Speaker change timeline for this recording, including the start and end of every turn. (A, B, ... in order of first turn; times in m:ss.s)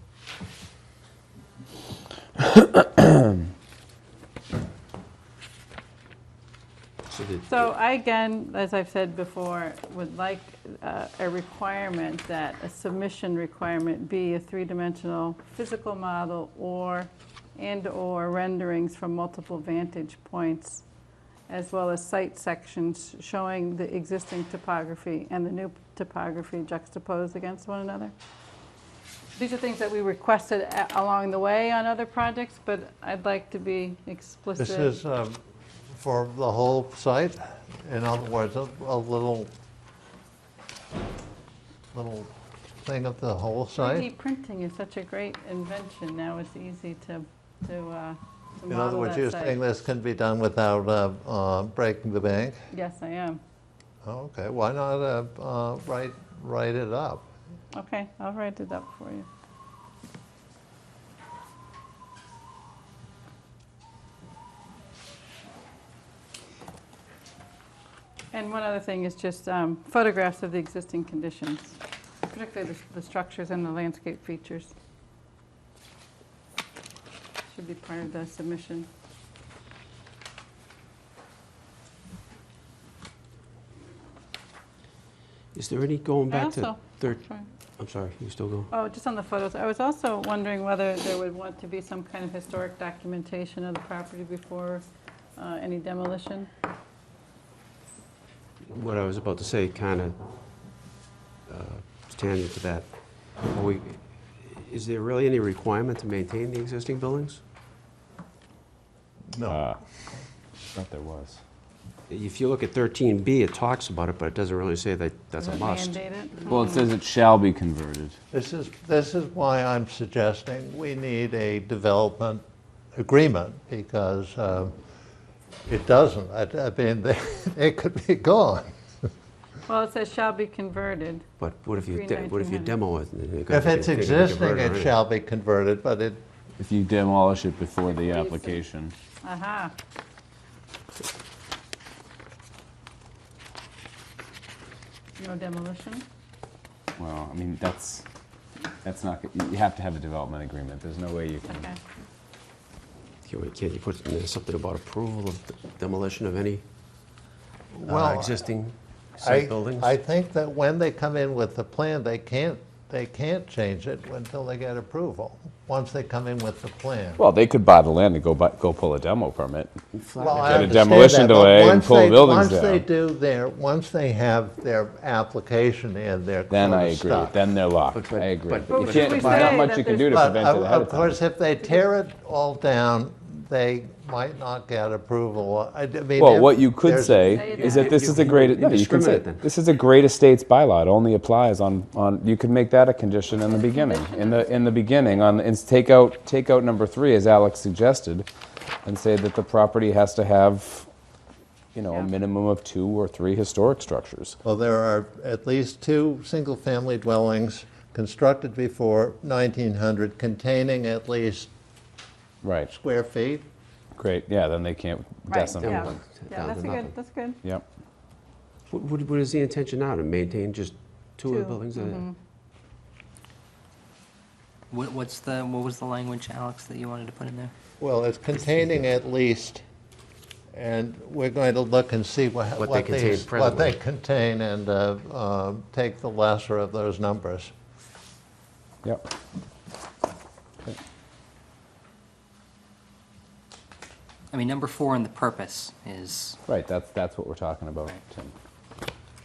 0:07.1-0:07.7 A
0:07.5-0:20.8 B
0:21.5-0:28.1 B
0:29.4-0:35.0 B
0:34.6-0:35.4 C
0:35.9-0:39.5 C
0:41.9-0:42.3 C
0:42.8-0:44.1 C
0:43.8-0:49.6 B
0:48.7-0:52.6 C
0:52.7-0:53.4 B
0:54.0-0:57.3 C
0:57.7-0:59.3 B
1:08.3-1:14.7 B
1:17.5-1:18.9 B
1:25.5-1:27.2 A
1:26.3-1:27.5 B
1:27.8-1:28.7 A
1:28.7-1:34.8 B
1:35.4-1:36.5 B
1:38.7-1:40.2 A
1:41.5-1:42.9 A
1:43.4-1:47.4 A
1:49.3-1:49.6 C
1:49.5-1:49.8 D
1:50.7-1:51.4 D
1:52.1-1:56.0 A
1:55.4-1:56.9 B
1:56.5-1:58.2 D
1:58.3-2:02.4 C
2:03.0-2:04.8 C
2:05.7-2:08.7 C
2:09.7-2:12.8 B
2:11.4-2:15.0 A
2:13.5-2:16.2 C
2:16.6-2:19.0 D
2:18.0-2:18.6 B
2:19.2-2:19.7 B
2:25.2-2:26.0 B
2:27.0-2:28.0 D
2:28.8-2:31.7 D
2:31.5-2:31.8 B
2:33.2-2:36.6 A
2:37.7-2:38.4 C
2:37.9-2:39.9 A
2:39.2-2:47.2 C
2:47.2-2:49.7 D
2:49.9-2:51.0 A
2:50.2-2:57.4 C
2:50.3-2:52.8 D
2:56.5-3:01.2 D
2:57.9-2:59.6 A
2:58.7-3:00.2 B
2:59.2-2:59.6 C
3:00.1-3:07.4 C
3:06.2-3:18.3 D
3:07.2-3:08.0 B
3:07.5-3:09.4 A
3:13.4-3:14.6 B
3:18.8-3:20.9 D
3:21.8-3:24.4 D
3:24.4-3:31.5 C
3:32.4-3:32.7 D
3:32.7-3:33.5 C
3:34.0-3:36.0 D
3:35.3-3:37.4 B
3:35.6-3:36.9 A
3:38.7-3:42.1 A
3:41.3-3:42.2 B
3:44.7-3:47.5 E
3:47.8-3:49.6 C
3:50.5-3:57.5 C
3:52.6-3:53.8 A
4:04.3-4:06.4 E
4:06.5-4:08.3 D